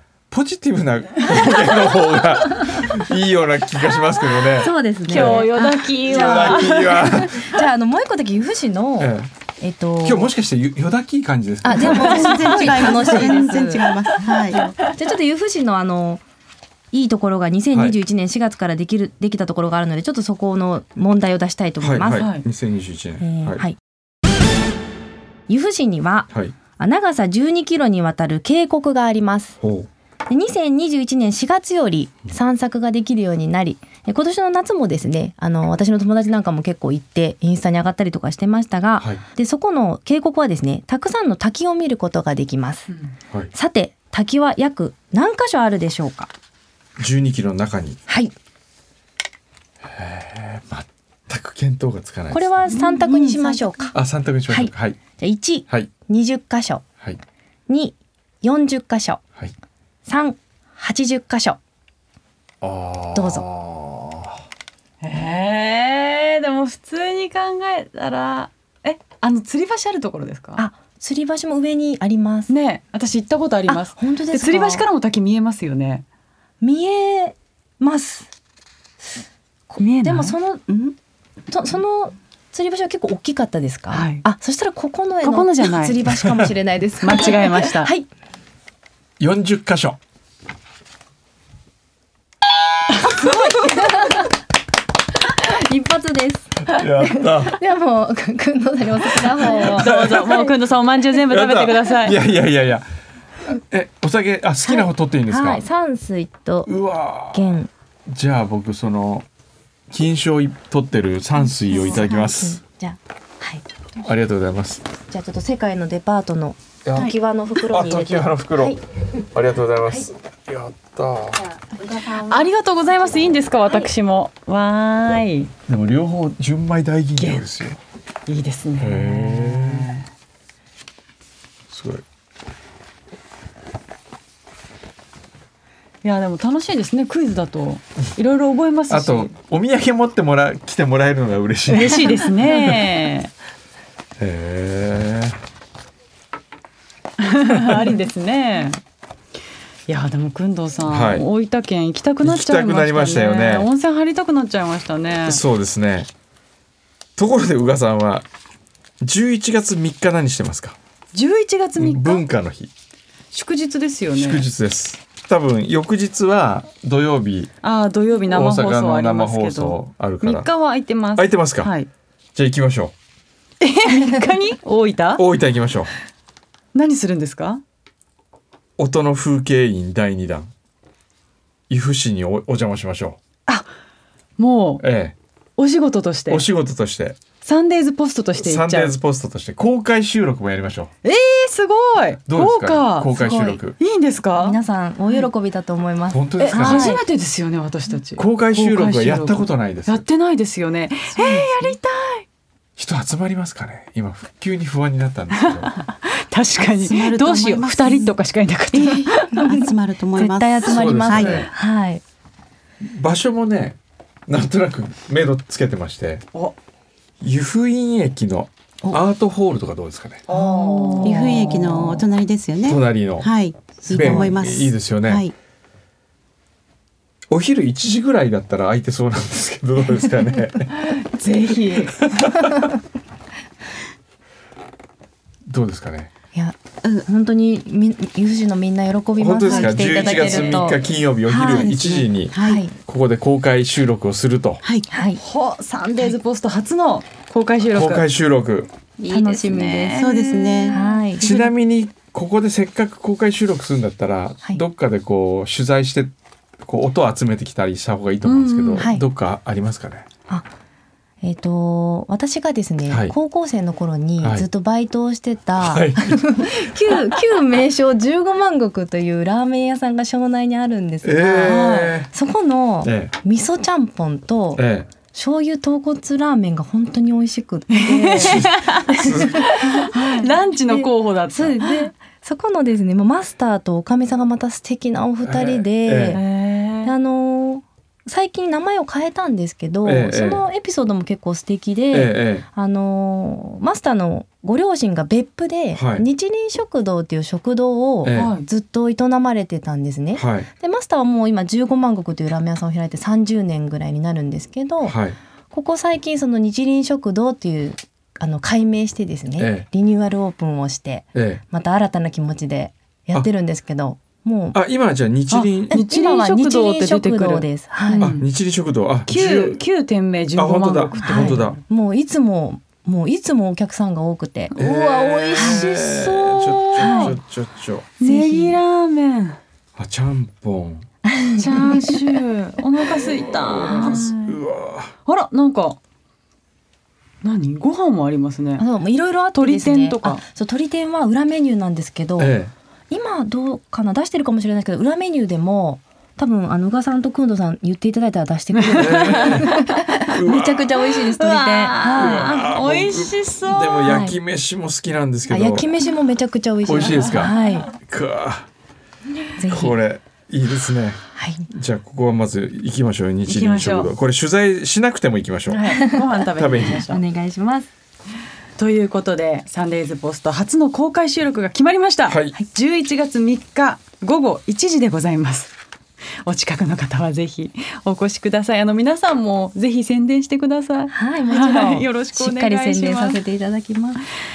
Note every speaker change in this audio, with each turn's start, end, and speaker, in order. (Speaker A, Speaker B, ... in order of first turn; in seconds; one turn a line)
Speaker A: 0.3-5.5
Speaker B: 4.6-10.3
Speaker C: 5.1-7.3
Speaker A: 6.0-7.5
Speaker A: 9.0-9.3
Speaker A: 10.0-12.4
Speaker B: 11.6-13.9
Speaker D: 11.8-14.7
Speaker C: 11.9-13.7
Speaker C: 14.2-14.6
Speaker B: 14.5-16.2
Speaker B: 16.9-22.3
Speaker A: 17.7-18.0
Speaker A: 21.8-23.7
Speaker C: 22.1-22.4
Speaker B: 23.2-23.8
Speaker B: 25.5-29.6
Speaker A: 29.6-29.9
Speaker B: 30.3-42.9
Speaker A: 39.0-39.2
Speaker B: 43.5-46.3
Speaker A: 47.0-48.0
Speaker B: 48.1-48.3
Speaker A: 49.8-52.5
Speaker B: 52.3-54.0
Speaker D: 52.7-53.6
Speaker A: 53.9-55.0
Speaker B: 54.5-56.9
Speaker B: 57.7-59.2
Speaker B: 60.1-61.6
Speaker A: 62.6-64.4
Speaker B: 63.1-63.5
Speaker C: 65.0-70.6
Speaker B: 70.6-72.5
Speaker C: 72.5-76.0
Speaker B: 73.7-74.8
Speaker B: 76.6-78.3
Speaker B: 79.7-80.8
Speaker C: 79.8-80.4
Speaker D: 80.7-80.9
Speaker B: 81.5-88.1
Speaker C: 83.9-84.3
Speaker C: 85.2-86.0
Speaker C: 87.0-87.9
Speaker A: 89.2-90.0
Speaker C: 93.0-93.6
Speaker B: 93.2-94.2
Speaker B: 95.3-100.5
Speaker A: 96.7-97.6
Speaker C: 99.4-102.2
Speaker A: 99.6-100.4
Speaker A: 101.3-102.9
Speaker A: 103.5-105.6
Speaker B: 104.7-106.7
Speaker A: 106.7-107.5
Speaker B: 107.3-107.7
Speaker A: 108.1-109.3
Speaker A: 109.9-112.6
Speaker B: 111.5-113.7
Speaker A: 114.0-114.8
Speaker B: 115.1-118.8
Speaker A: 116.8-121.5
Speaker C: 122.0-125.5
Speaker A: 125.7-127.8
Speaker C: 127.2-127.5
Speaker C: 128.3-130.1
Speaker A: 128.8-129.9
Speaker A: 131.7-132.0
Speaker C: 136.0-139.3
Speaker A: 138.9-142.8
Speaker C: 141.7-143.3
Speaker A: 144.2-145.4
Speaker C: 147.2-148.8
Speaker C: 149.9-155.4
Speaker A: 150.9-151.2
Speaker A: 152.2-153.7
Speaker A: 155.3-156.1
Speaker A: 157.2-158.3
Speaker A: 159.0-160.8
Speaker C: 161.1-162.2
Speaker A: 161.8-162.7
Speaker C: 163.3-164.5
Speaker A: 164.2-167.5
Speaker C: 167.6-171.9
Speaker A: 168.3-170.5
Speaker A: 171.2-171.7
Speaker A: 172.3-172.9
Speaker C: 173.6-175.2
Speaker A: 175.2-175.9
Speaker C: 176.7-177.6
Speaker A: 178.8-180.5
Speaker A: 181.7-183.2
Speaker C: 184.4-184.8
Speaker A: 184.8-185.2
Speaker C: 185.6-186.5
Speaker A: 186.3-187.2
Speaker C: 187.4-188.9
Speaker A: 188.4-190.9
Speaker C: 191.0-193.1
Speaker A: 192.3-193.8
Speaker B: 193.1-193.6
Speaker C: 193.8-194.6
Speaker B: 194.4-197.0
Speaker A: 196.1-197.0
Speaker C: 196.4-202.2
Speaker A: 198.2-200.0
Speaker D: 201.2-201.5
Speaker A: 202.8-205.8
Speaker C: 205.4-209.5
Speaker D: 206.8-208.1
Speaker D: 208.7-211.5
Speaker B: 210.2-212.0
Speaker A: 210.7-211.5
Speaker A: 212.8-216.3
Speaker A: 217.2-220.2
Speaker C: 220.3-222.0
Speaker B: 220.3-221.6
Speaker D: 221.0-225.3
Speaker A: 222.7-223.3
Speaker A: 223.9-225.3
Speaker B: 223.9-224.3
Speaker A: 227.3-230.7
Speaker C: 230.8-232.1
Speaker A: 232.0-232.6
Speaker A: 235.5-236.1
Speaker B: 236.3-240.8
Speaker A: 239.2-244.6
Speaker D: 239.4-240.6
Speaker C: 240.2-240.7
Speaker D: 241.3-242.6
Speaker B: 242.4-242.8
Speaker D: 244.6-244.9
Speaker B: 244.9-245.2
Speaker C: 245.2-248.1
Speaker A: 247.7-248.7
Speaker B: 249.0-250.1
Speaker C: 249.1-251.5
Speaker D: 250.0-250.8
Speaker B: 250.7-251.2
Speaker A: 251.2-260.1
Speaker C: 258.2-258.9
Speaker B: 258.8-259.1
Speaker B: 261.2-286.2
Speaker A: 262.9-263.1
Speaker A: 264.2-264.5
Speaker A: 265.6-266.5
Speaker A: 271.0-272.1
Speaker C: 271.4-272.0
Speaker A: 272.8-273.1
Speaker A: 274.6-274.9
Speaker C: 277.7-281.9
Speaker A: 278.2-279.5
Speaker A: 285.2-286.2
Speaker C: 286.1-286.9
Speaker B: 286.8-305.0
Speaker A: 289.8-290.4
Speaker A: 291.9-292.5
Speaker A: 295.7-296.1
Speaker A: 298.0-298.3
Speaker C: 298.1-298.5
Speaker A: 300.1-300.5
Speaker A: 304.9-305.2
Speaker B: 305.5-314.6
Speaker A: 309.4-309.7
Speaker A: 311.1-311.4
Speaker A: 314.5-315.8
Speaker C: 315.3-318.2
Speaker B: 315.7-318.1
Speaker A: 318.0-319.6
Speaker C: 319.1-321.6
Speaker A: 320.4-321.6
Speaker B: 321.0-325.8
Speaker C: 324.5-327.2
Speaker A: 324.5-327.9
Speaker B: 326.8-327.2
Speaker C: 328.0-329.4
Speaker B: 328.0-328.6
Speaker A: 329.8-330.9
Speaker B: 331.1-332.2
Speaker C: 331.4-334.4
Speaker A: 333.0-334.9
Speaker C: 335.1-335.8
Speaker C: 337.2-338.7
Speaker B: 338.6-342.3
Speaker C: 339.3-340.2
Speaker A: 342.2-342.5
Speaker B: 342.9-352.3
Speaker C: 348.5-349.7
Speaker A: 348.8-350.8
Speaker C: 350.9-354.1
Speaker A: 351.9-355.7
Speaker B: 353.9-354.2
Speaker B: 355.3-357.7
Speaker A: 356.7-358.5
Speaker B: 359.4-359.8
Speaker A: 359.5-366.8
Speaker B: 361.2-361.5
Speaker C: 363.3-363.9
Speaker C: 365.5-367.0
Speaker B: 365.7-366.1
Speaker B: 366.9-367.7
Speaker C: 368.6-375.5
Speaker A: 372.1-372.4
Speaker C: 376.2-383.2
Speaker B: 380.9-384.0